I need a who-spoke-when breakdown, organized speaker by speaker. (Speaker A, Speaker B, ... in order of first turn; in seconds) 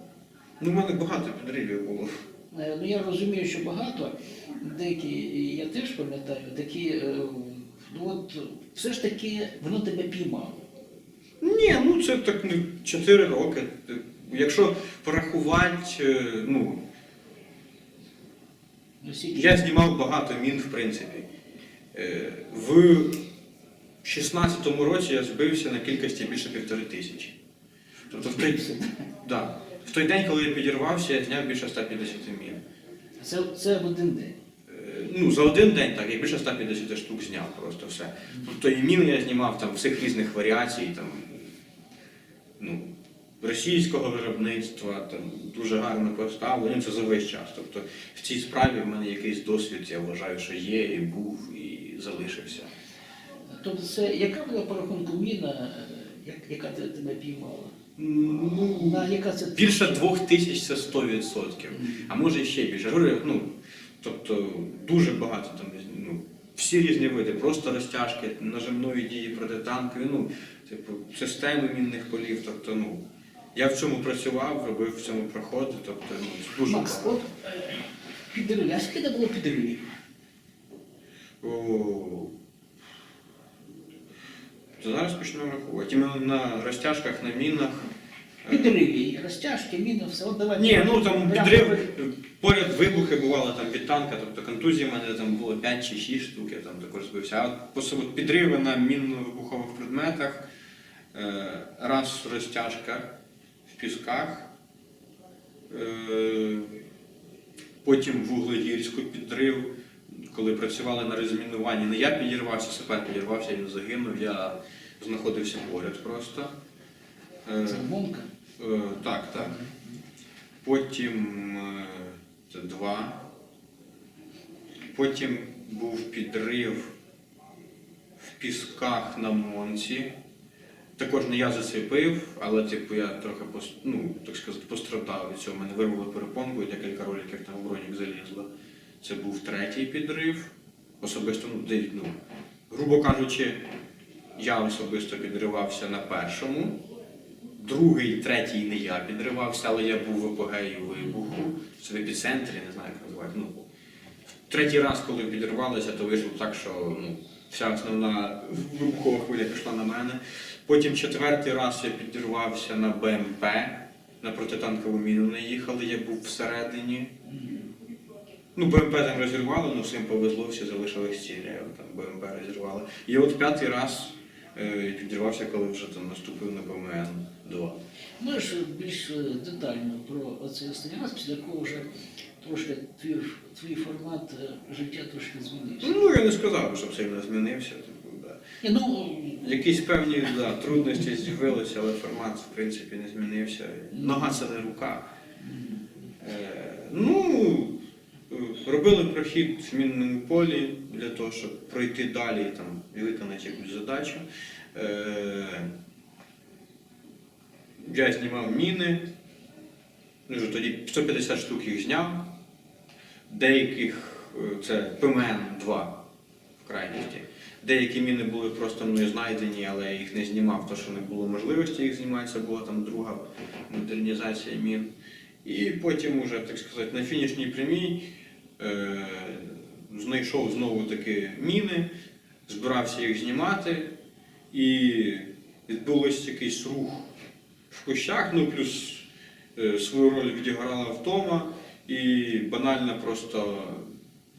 Speaker A: 0.6-2.1, 11.4-16.8, 19.3-21.3, 21.9-23.2, 24.0-27.4, 28.1-28.7, 29.2-32.6, 34.7-41.5, 42.6-42.9, 43.4-52.7, 58.0-73.0, 73.5-77.2, 81.4-82.3, 84.8-87.9, 88.4-88.8, 90.6-100.5, 101.1-103.1, 103.7-104.5, 105.7-106.7, 107.8-116.5, 117.5-117.9, 118.6-119.6, 120.6-123.3, 124.9-126.9, 128.2-130.1, 131.0-138.5, 139.0-142.1, 142.7-143.6, 144.4-146.8, 147.6-153.7, 154.5-167.1, 168.5-177.8, 185.8-188.4, 189.2-195.0, 196.2-197.8, 198.3-205.7, 207.8-209.1, 210.3-212.3, 213.3-216.0, 216.6-224.9, 225.4-228.0, 228.6-231.9, 232.5-233.9, 234.5-237.1, 237.7-243.8
Speaker B: 2.5-10.6, 19.0-19.6, 28.3-28.9, 33.2-34.4, 53.5-57.7, 58.7-60.0, 76.6-79.9, 88.5-91.9, 117.6-118.3, 119.4-119.8, 167.3-167.7, 178.2-181.9, 182.4-185.9, 188.6-189.4, 193.9-194.4, 195.4-195.8